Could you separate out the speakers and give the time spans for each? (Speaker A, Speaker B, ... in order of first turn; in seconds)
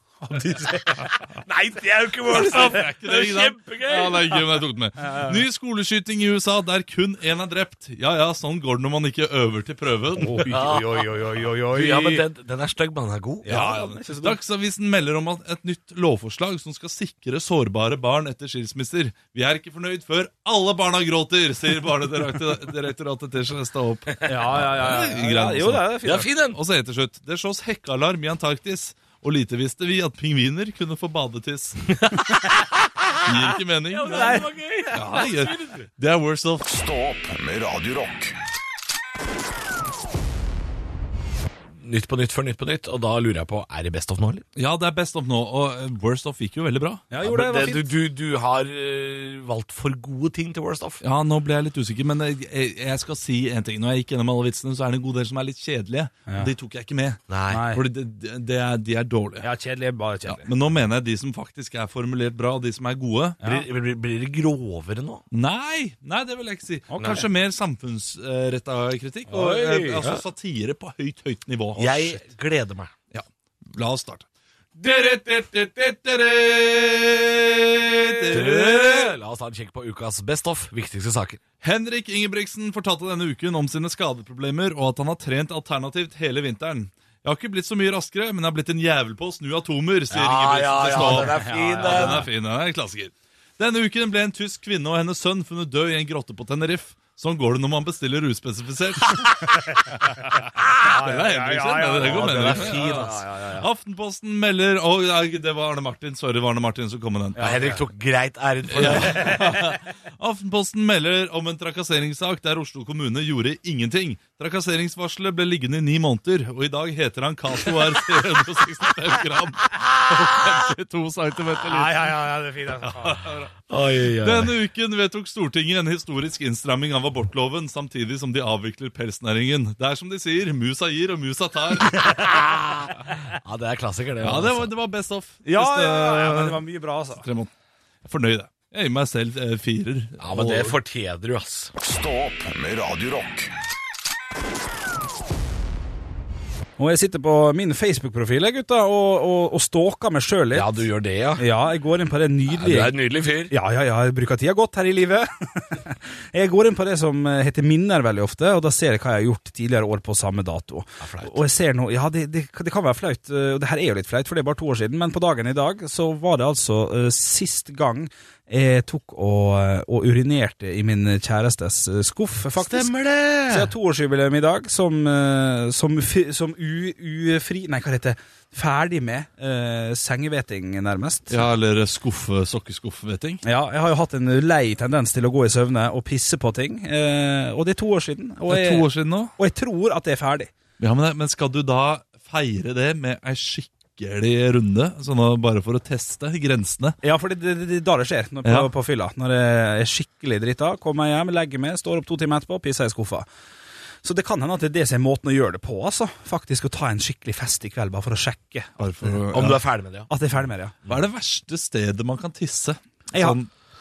Speaker A: 0.2-1.1, 5.0-5.4, 10.2-12.2, 13.4-14.4, 24.2-26.3, 34.1-34.6, 47.1-47.9, 57.5-57.8, 59.4-60.5, 66.9-67.3, 90.9-92.2, 99.7-100.2, 100.8-103.7, 107.4-107.8, 109.0-109.4, 121.7-123.4, 135.4-137.2, 146.8-150.7, 151.4-152.9, 153.5-172.9, 173.5-181.4, 183.4-190.5, 197.0-203.3, 204.0-209.2, 210.1-210.8, 213.1-213.4
Speaker B: 1.0-4.4, 10.5-11.1, 11.7-13.9, 26.0-26.6, 31.9-32.7, 33.9-35.9, 41.8-44.5, 47.2-51.0, 57.3-57.6, 63.4-65.2, 69.3-70.2, 71.8-72.9, 78.3-81.4, 90.1-92.3, 102.0-103.2, 107.4-109.5, 123.7-124.5, 132.0-134.7, 140.2-141.7, 150.5-151.4, 152.5-153.5, 161.0-161.4, 172.6-173.7, 209.3-210.1
Speaker C: 2.3-10.5, 13.5-31.9, 33.2-36.7, 44.6-47.1, 51.0-59.5, 60.3-63.4, 65.3-72.2, 73.1-74.3, 74.8-79.1, 81.6-99.9, 100.6-107.5, 108.7-122.2, 122.8-123.5, 124.2-132.1, 134.2-136.6, 137.2-137.5, 138.0-140.8, 181.3-183.4, 188.5-189.3, 190.8-197.0, 198.4-198.7, 208.8-209.6, 210.9-213.5
Speaker D: 36.7-38.4, 141.8-143.5